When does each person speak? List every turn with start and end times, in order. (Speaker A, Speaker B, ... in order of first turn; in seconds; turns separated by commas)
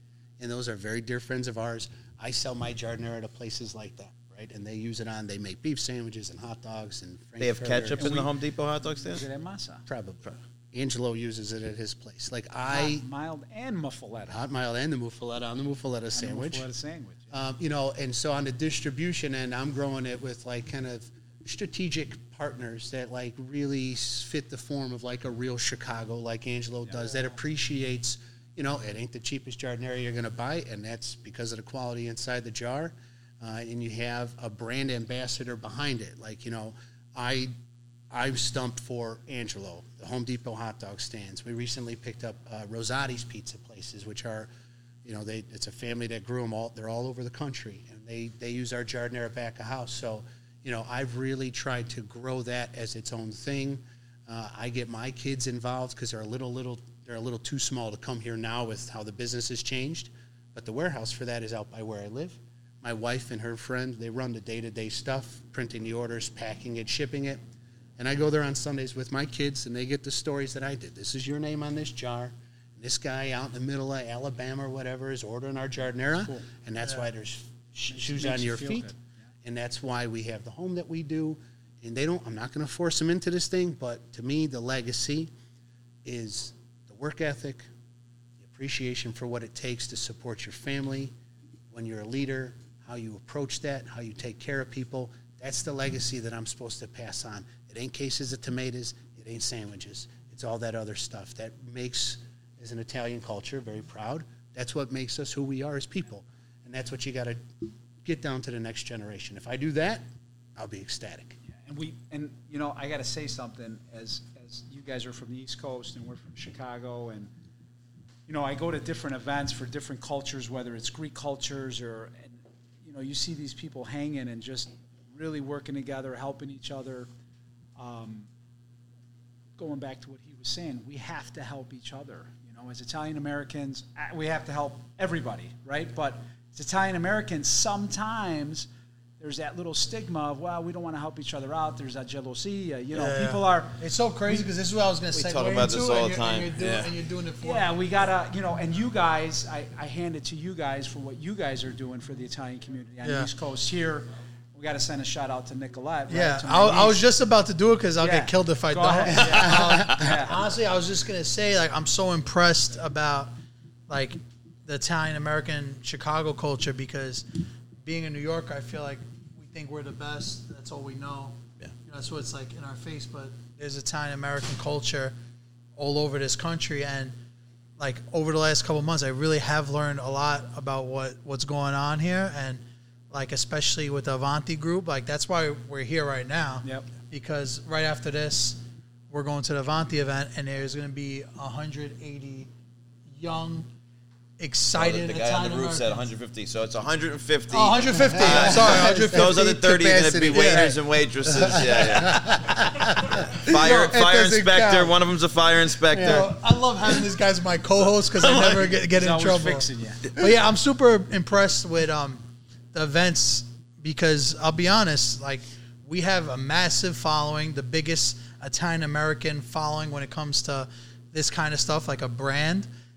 Speaker A: 0.4-8.3, Speaker B: 7.4-9.3, Speaker C: 8.0-8.3, Speaker C: 8.9-9.8, Speaker A: 9.9-13.0, Speaker C: 12.7-14.4, Speaker A: 14.3-16.6, Speaker C: 16.1-17.3, Speaker A: 17.3-37.5, Speaker A: 38.1-44.5, Speaker A: 45.0-67.4, Speaker A: 68.0-78.9, Speaker C: 77.9-79.0, Speaker A: 79.4-85.3, Speaker A: 86.0-87.7, Speaker A: 88.4-91.1, Speaker A: 91.7-107.4, Speaker A: 108.0-110.0, Speaker A: 110.6-111.4, Speaker C: 111.7-117.3, Speaker C: 118.3-127.1, Speaker C: 127.8-128.3, Speaker C: 129.6-138.7, Speaker C: 139.2-143.8, Speaker D: 142.9-147.7, Speaker B: 145.1-146.9, Speaker C: 147.4-157.1, Speaker D: 153.0-153.3, Speaker D: 156.1-163.3, Speaker C: 158.0-160.4, Speaker A: 159.2-159.9, Speaker D: 163.9-167.2, Speaker D: 167.8-175.1, Speaker D: 175.8-177.1, Speaker D: 177.8-192.5, Speaker D: 193.1-193.7, Speaker D: 194.4-196.1, Speaker B: 194.8-202.7, Speaker D: 197.5-199.5, Speaker A: 198.1-204.9, Speaker D: 200.3-200.7, Speaker B: 203.2-206.3, Speaker A: 205.9-206.3, Speaker D: 206.0-222.7, Speaker C: 208.9-210.1